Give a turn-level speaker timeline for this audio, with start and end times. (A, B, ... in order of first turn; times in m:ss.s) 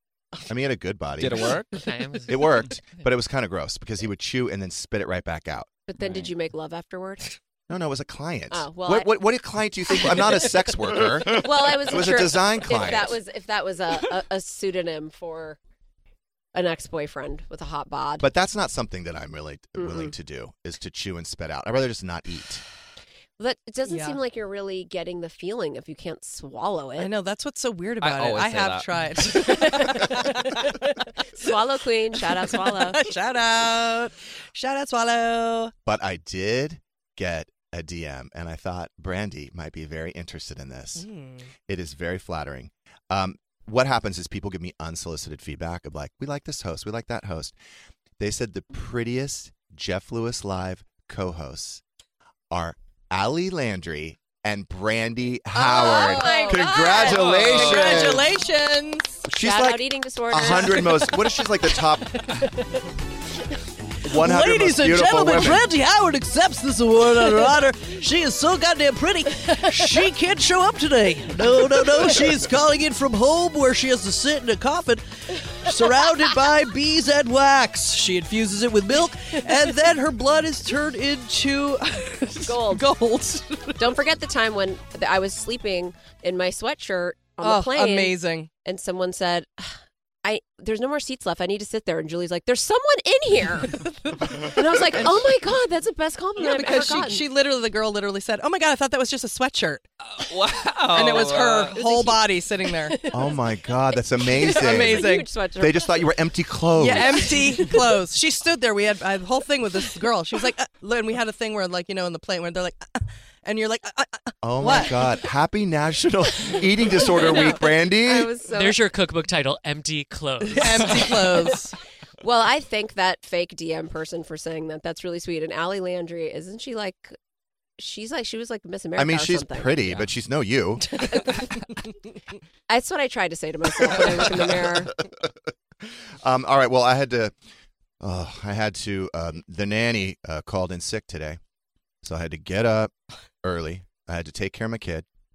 0:00.5-0:01.6 A
0:01.2-0:01.8 B
0:01.8-0:02.7 C
0:02.3-0:05.7 A
0:05.9-0:07.4 D
0:06.0-0:06.3 B
0:07.7-0:13.2 A
0:08.5-0:09.2 D
0:11.2-0:15.6 D
0:16.5-0:18.3 D
0:18.2-0:22.6 A
0:19.8-0:20.1 D
0:23.4-0:27.1 D
0:23.8-0:24.2 E
0:27.0-0:30.8 E
0:28.0-0:29.0 B
0:29.4-0:30.3 D
0:31.4-0:33.1 D
0:32.2-0:35.7 E
0:35.8-0:41.1 A
0:41.0-0:41.5 E
0:41.7-0:47.6 A
0:48.2-0:51.8 A
0:52.5-0:58.3 A
0:55.5-0:57.4 D
0:55.6-0:59.2 E
0:57.0-0:58.1 B
0:59.3-1:02.2 A
0:59.3-1:01.2 D
1:00.5-1:01.0 E
1:04.0-1:05.7 A
1:04.1-1:23.8 E
1:22.4-1:22.9 D
1:23.8-1:37.2 D
1:27.4-1:28.5 E
1:36.4-1:39.8 E
1:40.0-1:41.8 B
1:40.9-1:43.0 E
1:41.8-1:42.3 D
1:42.8-1:43.4 D
1:43.1-1:47.3 A
1:44.3-1:46.1 D
1:44.4-1:45.3 E
1:46.7-1:55.0 E
1:46.9-1:47.8 D
1:54.4-1:58.3 A
1:57.2-1:58.8 D
1:58.5-2:01.6 C
2:00.5-2:01.8 E
2:02.2-2:07.2 D
2:07.8-2:09.8 D
2:09.0-2:11.0 A
2:11.0-2:11.5 D
2:12.7-2:15.0 D
2:16.2-2:17.3 A
2:18.0-2:21.4 A
2:22.0-2:22.9 A
2:23.4-2:25.1 A